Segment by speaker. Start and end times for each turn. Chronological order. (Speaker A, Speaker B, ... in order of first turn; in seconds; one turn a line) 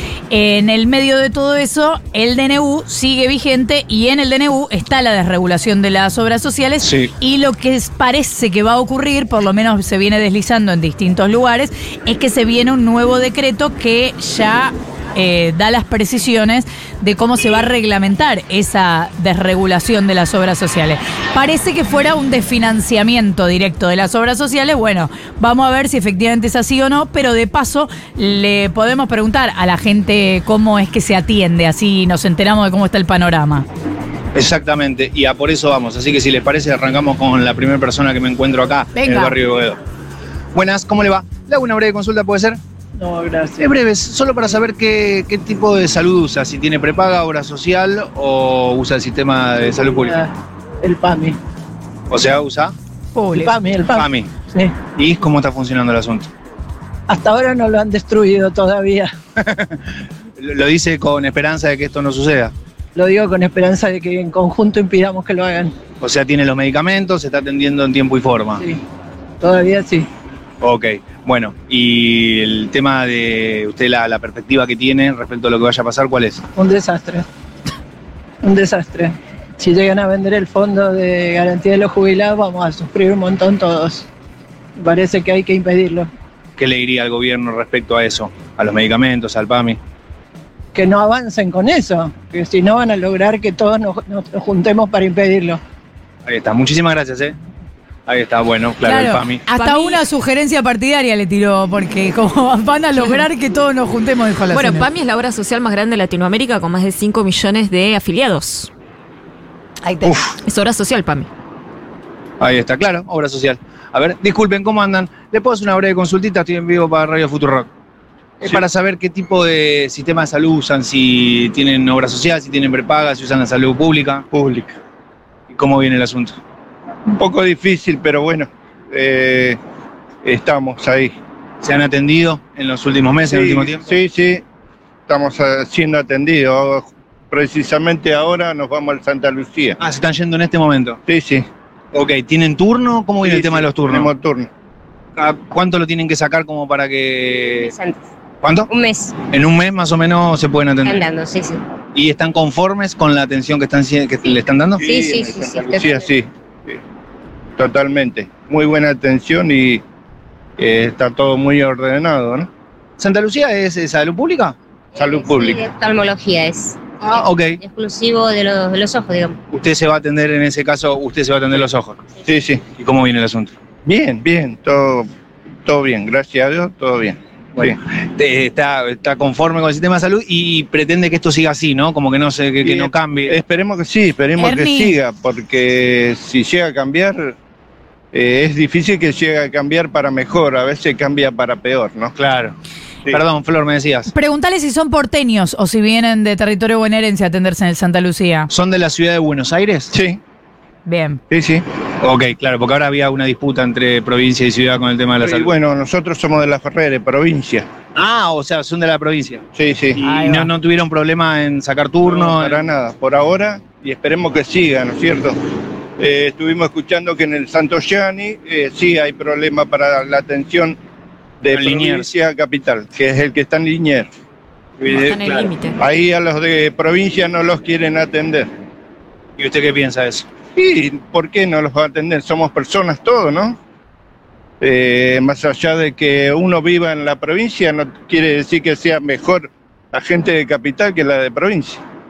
Speaker A: 0.3-33.7
Speaker B: 6.8-7.1
Speaker B: 34.4-39.8
Speaker A: 39.0-39.4
Speaker B: 40.5-42.6
Speaker C: 43.0-43.7
Speaker B: 43.6-50.2
Speaker C: 49.7-51.4
Speaker B: 52.1-52.7
Speaker A: 53.1-53.5
Speaker C: 53.3-54.8
Speaker B: 54.0-54.3
Speaker B: 54.9-56.3
Speaker C: 57.1-59.1
Speaker B: 59.4-62.5
Speaker C: 63.0-65.8
Speaker B: 66.0-68.6
Speaker C: 69.4-70.1
Speaker B: 70.6-76.4
Speaker C: 76.6-77.3
Speaker C: 78.4-84.1
Speaker C: 84.8-86.1
Speaker B: 86.6-89.8
Speaker C: 90.7-95.6
Speaker B: 96.3-97.3
Speaker B: 98.1-99.4
Speaker A: 98.8-104.9
Speaker D: 99.5-100.0
Speaker D: 104.5-108.7
Speaker B: 110.0-110.3
Speaker D: 110.4-111.3
Speaker B: 112.4-117.7
Speaker B: 118.4-124.2
Speaker E: 124.3-124.8
Speaker B: 125.5-126.4
Speaker E: 127.2-129.6
Speaker E: 130.2-131.1
Speaker B: 131.6-133.8
Speaker E: 133.3-134.4
Speaker E: 135.1-139.8
Speaker B: 139.8-141.0
Speaker E: 141.1-141.5
Speaker B: 141.9-144.1
Speaker E: 143.2-144.5
Speaker B: 145.2-147.7
Speaker F: 147.4-148.0
Speaker B: 148.4-148.7
Speaker F: 148.7-149.2
Speaker B: 149.2-151.0
Speaker F: 150.8-151.6
Speaker B: 151.9-154.8
Speaker E: 154.8-156.8
Speaker F: 154.8-156.1
Speaker E: 157.6-159.8
Speaker E: 160.6-162.5
Speaker B: 163.0-164.6
Speaker F: 164.9-169.4
Speaker E: 165.0-165.6
Speaker B: 167.0-167.6
Speaker B: 169.5-172.0
Speaker E: 172.2-172.7
Speaker B: 172.7-173.5
Speaker E: 173.8-175.1
Speaker E: 175.7-177.8
Speaker B: 177.6-183.4
Speaker E: 182.6-187.4
Speaker A: 184.4-185.0
Speaker E: 188.1-192.1
Speaker B: 192.2-192.6
Speaker B: 193.1-194.1
Speaker A: 194.1-198.5
Speaker B: 198.5-199.9
Speaker E: 199.9-200.2
Speaker A: 200.8-201.2
Speaker E: 201.3-201.6
Speaker B: 202.0-205.5
Speaker E: 205.2-207.7
Speaker B: 207.9-209.4
Speaker E: 209.5-210.0
Speaker B: 210.0-212.6
Speaker A: 210.0-210.5
Speaker E: 212.1-215.4
Speaker E: 216.0-220.8
Speaker E: 221.4-224.1
Speaker B: 221.5-222.1
Speaker B: 224.8-225.5
Speaker D: 224.9-225.8
Speaker E: 225.8-228.5
Speaker B: 229.4-230.3
Speaker E: 230.6-233.6
Speaker E: 234.6-241.8